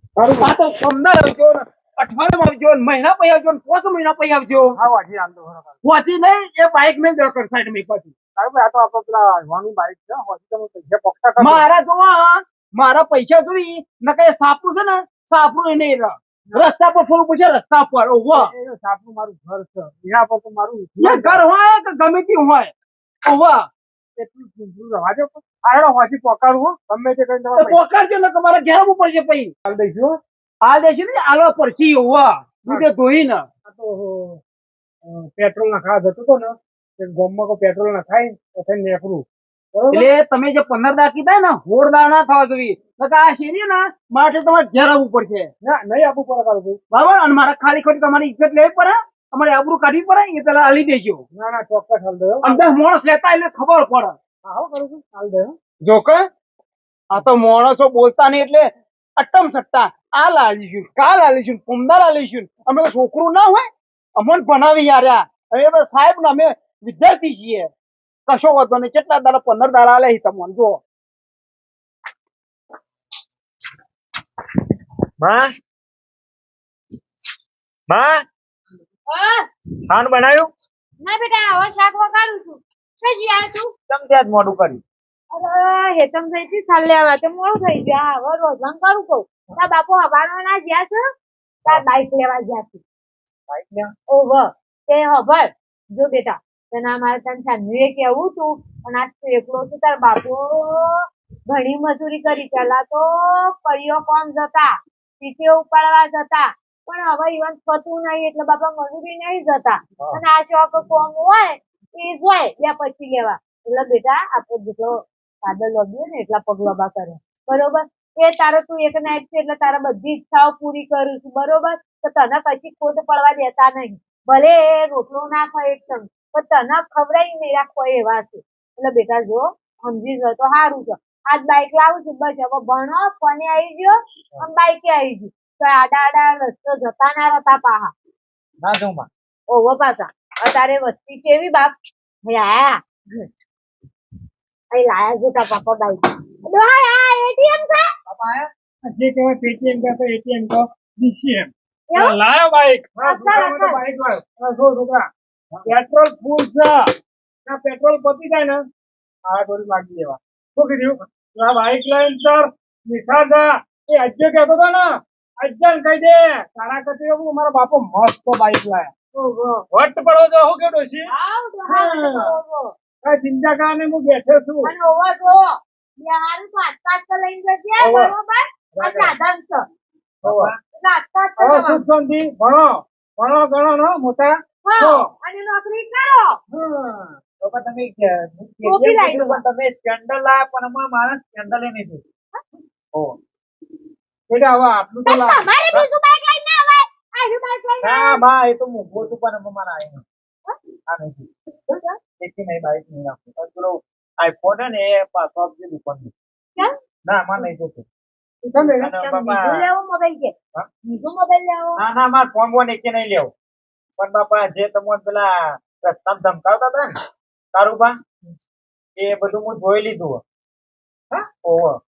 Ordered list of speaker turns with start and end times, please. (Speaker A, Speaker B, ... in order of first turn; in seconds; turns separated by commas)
Speaker A: 0.2-0.5, Speaker B: 0.4-4.8, Speaker A: 4.7-5.8, Speaker B: 5.8-8.2, Speaker A: 8.3-11.7, Speaker B: 11.4-18.5, Speaker A: 18.3-21.4, Speaker B: 21.0-22.7, Speaker B: 23.2-23.7, Speaker A: 24.1-27.8, Speaker B: 27.6-29.5, Speaker A: 29.7-30.2, Speaker B: 30.6-33.5, Speaker A: 33.6-34.4, Speaker A: 35.0-40.1, Speaker B: 39.9-45.5, Speaker A: 45.6-46.8, Speaker B: 46.9-51.2, Speaker A: 51.3-52.7, Speaker B: 52.4-54.2, Speaker A: 54.4-55.5, Speaker B: 55.8-56.3, Speaker B: 57.1-67.7, Speaker B: 68.3-70.8, Speaker C: 75.2-75.5, Speaker C: 77.9-78.2, Speaker D: 79.1-79.5, Speaker C: 79.9-80.5, Speaker D: 81.0-83.7, Speaker C: 83.9-84.8, Speaker D: 85.3-91.0, Speaker D: 91.7-92.8, Speaker C: 93.5-93.9, Speaker D: 94.1-137.9, Speaker C: 138.6-139.1, Speaker D: 139.5-143.3, Speaker D: 144.7-147.9, Speaker C: 148.1-148.5, Speaker A: 148.8-156.8, Speaker D: 151.9-152.2, Speaker D: 153.0-153.8, Speaker A: 157.4-158.6, Speaker A: 159.3-168.9, Speaker D: 169.1-169.7, Speaker A: 169.7-171.1, Speaker D: 171.1-172.7, Speaker A: 171.7-172.3, Speaker A: 173.0-174.7, Speaker D: 174.6-179.6, Speaker A: 177.8-178.1, Speaker A: 178.8-179.1, Speaker C: 180.2-180.6, Speaker A: 180.2-180.5, Speaker D: 180.8-181.8, Speaker A: 181.4-185.1, Speaker D: 184.6-186.4, Speaker A: 186.5-187.2, Speaker C: 187.4-192.0, Speaker D: 188.6-189.4, Speaker A: 194.3-195.4, Speaker D: 195.0-198.2, Speaker C: 197.8-200.0, Speaker C: 200.9-201.3, Speaker D: 201.7-202.0, Speaker C: 202.2-206.1, Speaker C: 207.1-207.8, Speaker D: 208.4-210.3, Speaker C: 208.5-209.7, Speaker D: 210.8-211.8, Speaker C: 211.8-213.3, Speaker C: 214.0-217.0, Speaker C: 217.5-218.0, Speaker C: 218.9-220.2, Speaker C: 221.1-221.8